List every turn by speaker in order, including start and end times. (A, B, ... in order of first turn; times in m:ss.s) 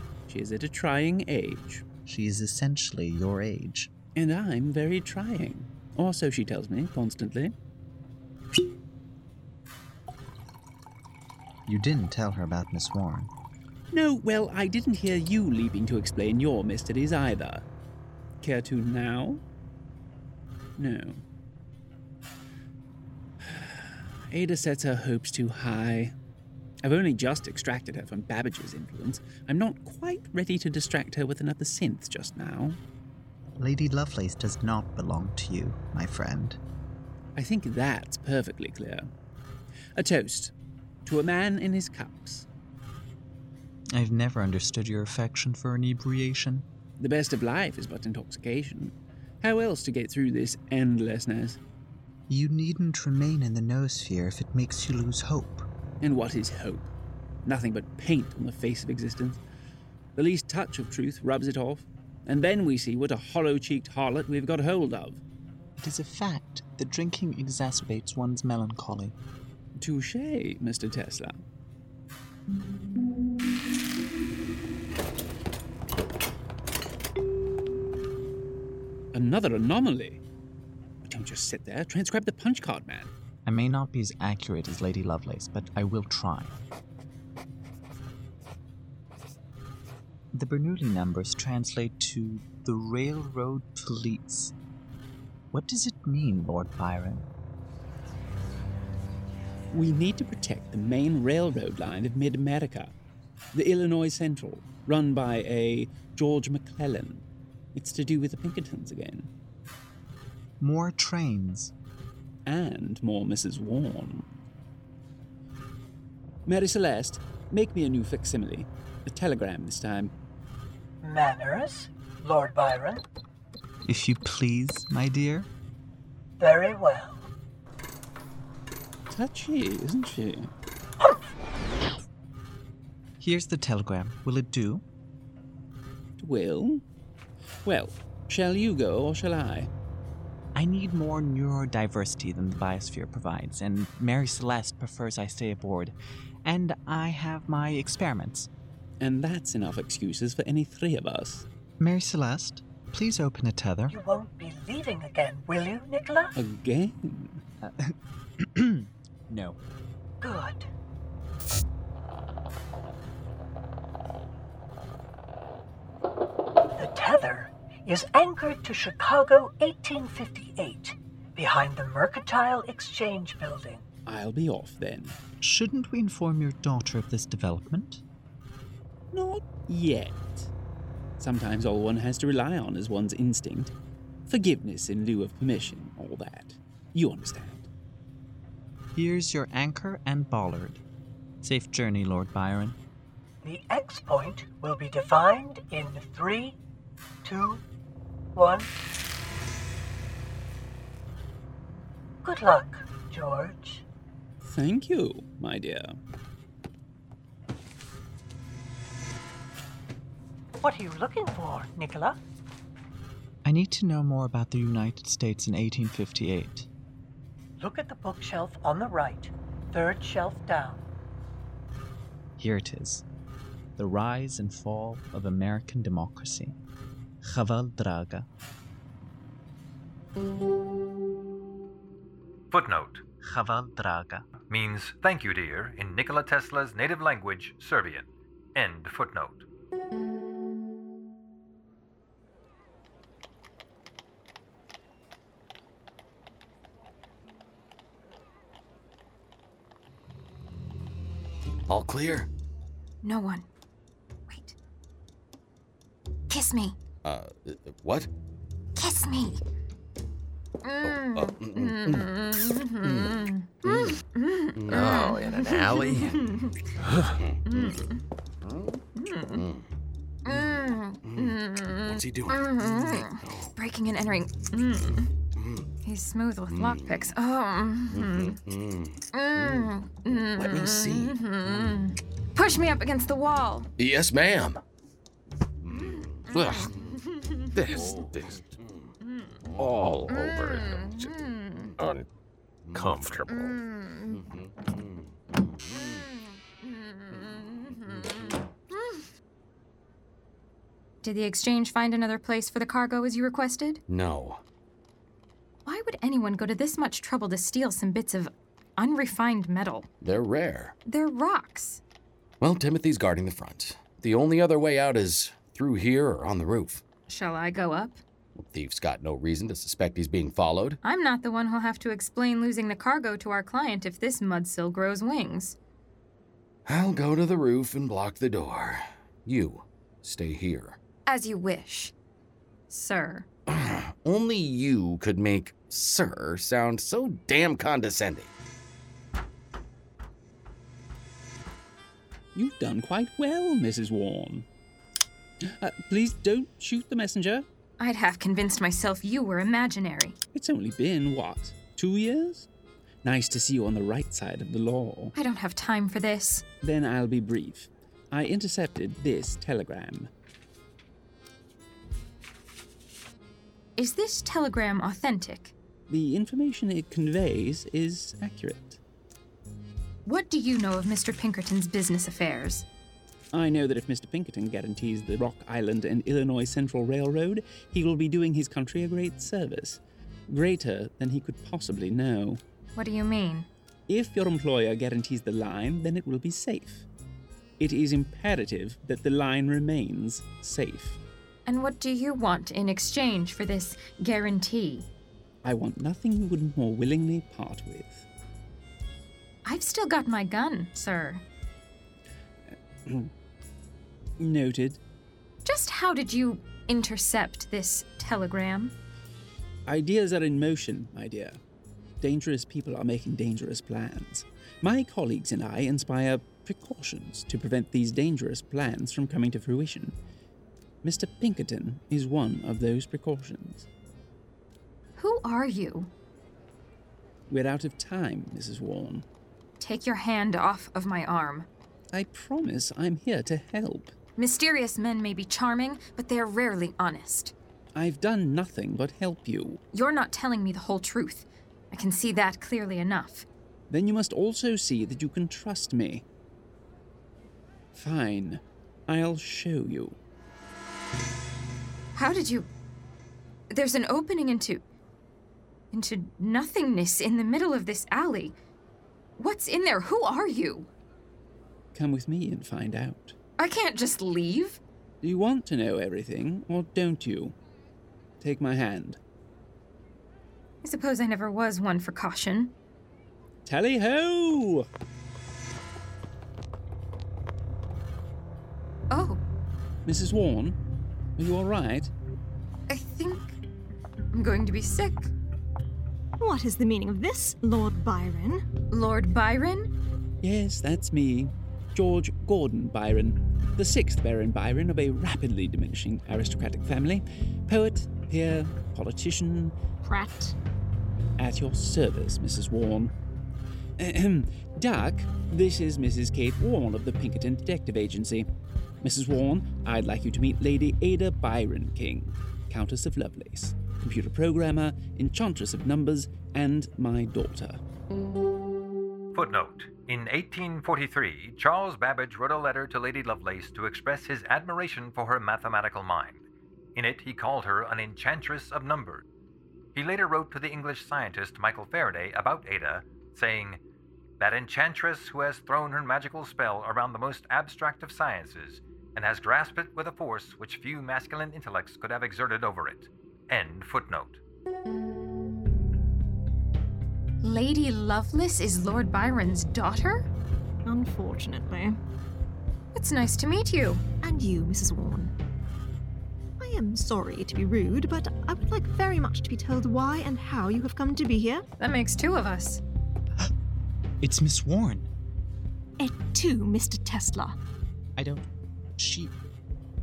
0:00.3-0:01.8 A
0:02.1-0:03.9 B
0:04.1-0:07.5 A
0:11.6-0:13.3 B
0:13.9-0:17.6 A
0:18.4-0:19.4 A
0:20.8-0:21.2 A
0:23.4-0:26.1 A
0:26.8-0:32.8 A
0:33.6-0:36.6 B
0:37.4-0:39.1 A
0:40.0-0:40.5 A
0:41.1-0:42.4 A
0:43.9-0:46.6 B
0:47.0-0:51.6 A
0:52.3-0:55.7 B
0:56.0-0:56.9 A
0:57.4-0:59.4 A
1:00.2-1:05.2 A
1:05.8-1:09.2 B
1:09.8-1:11.4 A
1:19.1-1:20.2 A
1:21.1-1:23.1 A
1:23.4-1:26.6 B
1:30.3-1:34.5 B
1:35.5-1:37.3 B
1:39.7-1:42.9 A
1:43.5-1:47.2 A
1:47.8-1:49.3 A
1:50.6-1:51.7 B
1:52.4-1:54.3 A
1:56.4-2:00.1 A
2:01.0-2:03.0 C
2:03.8-2:05.5 B
2:06.4-2:07.3 C
2:09.1-2:10.5 A
2:11.0-2:11.3 C
2:13.2-2:14.8 B
2:16.2-2:16.8 A
2:17.6-2:19.7 A
2:20.6-2:28.5 B
2:29.0-2:31.4 A
2:31.8-2:34.0 B
2:33.9-2:36.3 C
2:36.4-2:37.4 A
2:37.6-2:39.6 B
2:40.2-2:40.7 C
2:46.8-2:53.8 C
2:54.1-2:55.2 A
2:55.4-2:58.0 B
2:59.1-3:00.5 A
3:01.2-3:03.7 A
3:04.3-3:07.7 A
3:08.9-3:10.8 B
3:11.4-3:12.8 B
3:13.4-3:16.6 C
3:17.2-3:17.6 C
3:18.3-3:18.7 C
3:22.2-3:23.8 C
3:24.4-3:26.0 A
3:30.6-3:32.2 C
3:33.4-3:36.7 B
3:37.6-3:40.8 C
3:42.4-3:43.0 B
3:43.8-3:46.6 B
3:47.2-3:48.3 B
3:52.5-3:53.0 D
3:53.2-3:54.2 B
3:54.5-3:59.4 D
4:11.7-4:12.3 E
4:13.0-4:13.5 F
4:14.3-4:14.6 F
4:16.3-4:16.8 F
4:17.0-4:18.1 E
4:18.8-4:19.4 F
4:20.6-4:26.7 F
4:20.8-4:24.0 E
4:24.6-4:27.7 E
4:27.5-4:28.0 F
4:28.4-4:28.8 E
4:29.0-4:29.4 F
4:29.4-4:29.6 E
4:30.2-4:35.1 F
4:31.0-4:33.5 E
4:35.4-4:35.6 E
4:35.8-4:38.4 F
4:36.5-4:37.0 E
4:37.9-4:39.0 E
4:39.1-4:43.7 F
4:40.3-4:41.7 E
4:43.8-4:44.6 E
4:45.6-4:46.9 E
4:45.8-4:48.0 F
4:47.6-4:48.9 E
4:49.1-4:49.3 F
4:49.6-4:51.1 E
4:50.1-4:51.7 F
4:51.8-4:52.1 E
4:52.7-4:55.0 E
4:53.3-4:54.2 F
4:56.8-4:59.1 F
5:01.0-5:03.8 F
5:03.9-5:04.4 E
5:05.6-5:09.9 F
5:10.0-5:10.7 E
5:10.8-5:11.8 F
5:12.4-5:16.8 E
5:17.1-5:18.0 F
5:18.4-5:20.8 E
5:20.8-5:25.6 F
5:26.7-5:30.8 E
5:31.1-5:31.9 F
5:32.7-5:33.2 F
5:33.5-5:38.3 E
5:42.3-5:44.4 A
5:45.4-5:47.4 A
5:47.8-5:50.2 F
5:50.3-5:52.5 A
5:53.0-5:55.1 A
5:55.2-5:56.4 F
5:56.6-6:00.1 A
6:03.8-6:05.5 F
6:05.9-6:08.8 A
6:10.1-6:12.7 F
6:13.3-6:22.4 A
6:22.8-6:23.5 F
6:23.9-6:26.8 A
6:27.6-6:31.0 A
6:31.4-6:34.9 F
6:35.4-6:38.1 A
6:39.4-6:41.2 F
6:42.8-6:43.1 A
6:44.2-6:44.8 A
6:45.4-6:48.7 F
6:49.7-6:51.4 A
6:52.0-7:00.0 A
7:00.8-7:03.7 A
7:05.0-7:05.9 F
7:07.3-7:09.0 A
7:09.6-7:11.5 F
7:11.9-7:13.9 A
7:14.2-7:17.3 F
7:17.8-7:19.6 A
7:19.7-7:23.2 F
7:23.7-7:26.0 A
7:27.7-7:30.0 A
7:31.9-7:32.5 F
7:33.5-7:34.6 F
7:35.7-7:38.4 F
7:39.2-7:40.7 F
7:41.7-7:43.2 A
7:43.4-7:44.6 F
7:45.0-7:47.3 A
7:48.2-7:49.0 A
7:50.6-7:52.5 F
7:53.4-7:54.7 A
7:58.9-7:59.2 F
7:59.8-8:00.6 A
8:01.2-8:01.9 A
8:02.7-8:03.4 F
8:04.1-8:05.1 F
8:06.2-8:08.5 G
8:08.7-8:09.7 F
8:10.2-8:19.6 A
8:19.8-8:20.3 G
8:21.2-8:22.9 A
8:23.8-8:28.2 A
8:28.8-8:37.6 A
8:39.1-8:46.2 D
8:46.7-8:49.1 D
8:49.7-8:53.6 D
8:54.2-9:04.2 D
9:07.2-9:10.0 F
9:10.6-9:11.8 G
9:12.7-9:13.8 F
9:14.0-9:15.1 G
9:16.4-9:21.4 G
9:21.6-9:22.6 F
9:24.0-9:24.9 B
9:25.8-9:27.4 G
9:28.0-9:29.1 B